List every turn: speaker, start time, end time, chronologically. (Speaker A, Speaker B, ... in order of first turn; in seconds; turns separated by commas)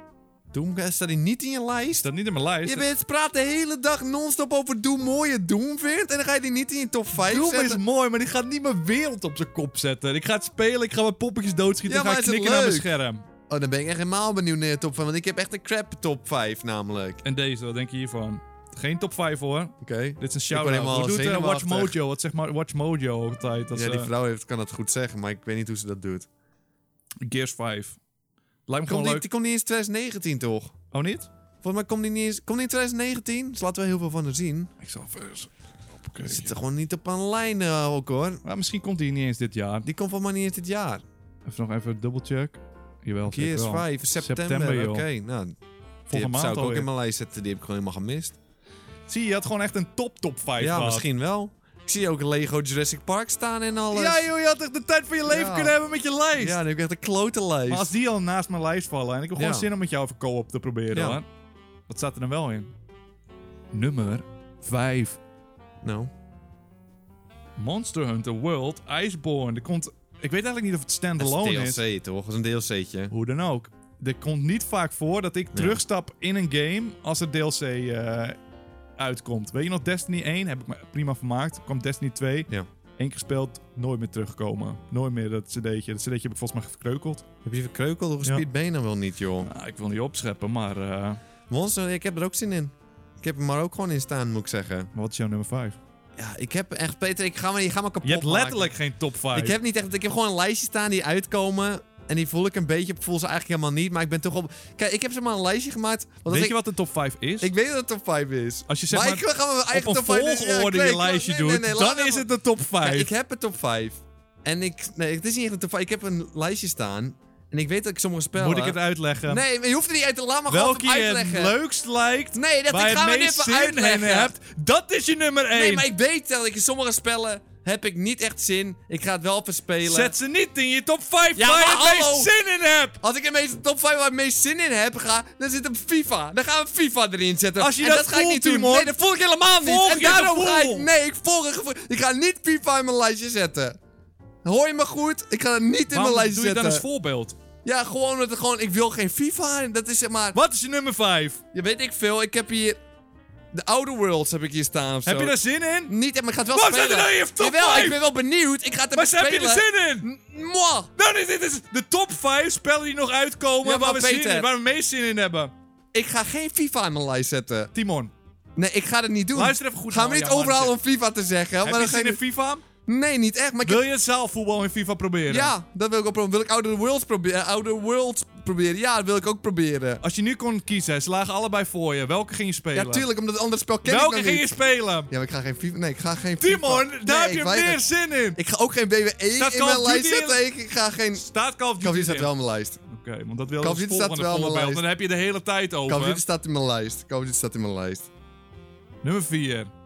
Speaker A: 0.5-2.1, Speaker B: 2.0-2.9, Speaker A: 2.6-7.8, Speaker B: 7.2-13.2, Speaker A: 11.9-12.9, Speaker A: 13.5-17.2, Speaker B: 17.2-24.1, Speaker A: 19.8-22.0, Speaker A: 23.7-26.3, Speaker B: 27.2-28.0, Speaker B: 28.7-29.3, Speaker A: 28.9-30.7, Speaker B: 30.9-31.3, Speaker A: 31.6-34.7, Speaker B: 34.8-36.6, Speaker A: 36.2-38.4, Speaker B: 38.4-39.9, Speaker A: 39.8-41.0, Speaker B: 41.5-45.0, Speaker A: 43.3-45.5, Speaker B: 46.1-46.9, Speaker A: 46.1-48.4, Speaker B: 49.1-51.0, Speaker A: 50.6-54.2, Speaker B: 53.9-56.6, Speaker A: 55.2-55.8, Speaker A: 56.4-57.9, Speaker B: 57.7-61.3, Speaker A: 59.4-59.7, Speaker A: 60.9-61.2, Speaker B: 61.9-62.7, Speaker B: 63.7-65.2, Speaker A: 65.8-66.1, Speaker B: 67.6-71.8, Speaker A: 71.2-73.1, Speaker B: 73.1-78.4, Speaker A: 75.5-75.8, Speaker B: 79.0-87.2, Speaker A: 87.5-89.5, Speaker B: 89.5-91.2, Speaker A: 91.5-94.9, Speaker B: 94.9-95.8, Speaker A: 96.2-98.7, Speaker B: 98.0-99.6, Speaker A: 99.3-106.6, Speaker B: 106.3-107.5, Speaker A: 107.4-112.3, Speaker B: 108.7-113.1, Speaker A: 112.8-121.5, Speaker B: 118.3-119.4, Speaker B: 120.5-125.9, Speaker A: 122.3-124.3, Speaker A: 125.5-130.1, Speaker B: 129.8-133.0, Speaker A: 131.4-132.3, Speaker A: 133.0-143.8, Speaker B: 137.6-138.9, Speaker B: 139.6-140.9, Speaker A: 144.4-146.8, Speaker B: 145.9-147.4, Speaker A: 147.6-150.4, Speaker B: 150.3-151.4, Speaker A: 151.5-152.8, Speaker A: 153.5-155.4, Speaker B: 155.1-155.9, Speaker A: 155.9-160.9, Speaker B: 156.5-158.0, Speaker B: 158.9-160.1, Speaker B: 161.0-165.5, Speaker A: 163.6-164.5, Speaker A: 165.9-167.7, Speaker B: 167.7-168.1, Speaker A: 168.6-172.2, Speaker B: 169.3-170.8, Speaker B: 171.6-172.6, Speaker A: 172.9-173.8, Speaker B: 173.7-175.5, Speaker A: 175.3-180.0, Speaker B: 180.0-183.1, Speaker A: 182.7-184.6, Speaker B: 183.8-185.1, Speaker A: 185.1-187.8, Speaker B: 186.4-188.4, Speaker A: 188.4-191.2, Speaker B: 189.4-190.4, Speaker B: 191.2-192.3, Speaker A: 191.8-192.8, Speaker B: 192.9-196.2, Speaker A: 193.6-194.9, Speaker A: 195.9-198.1, Speaker B: 199.0-199.7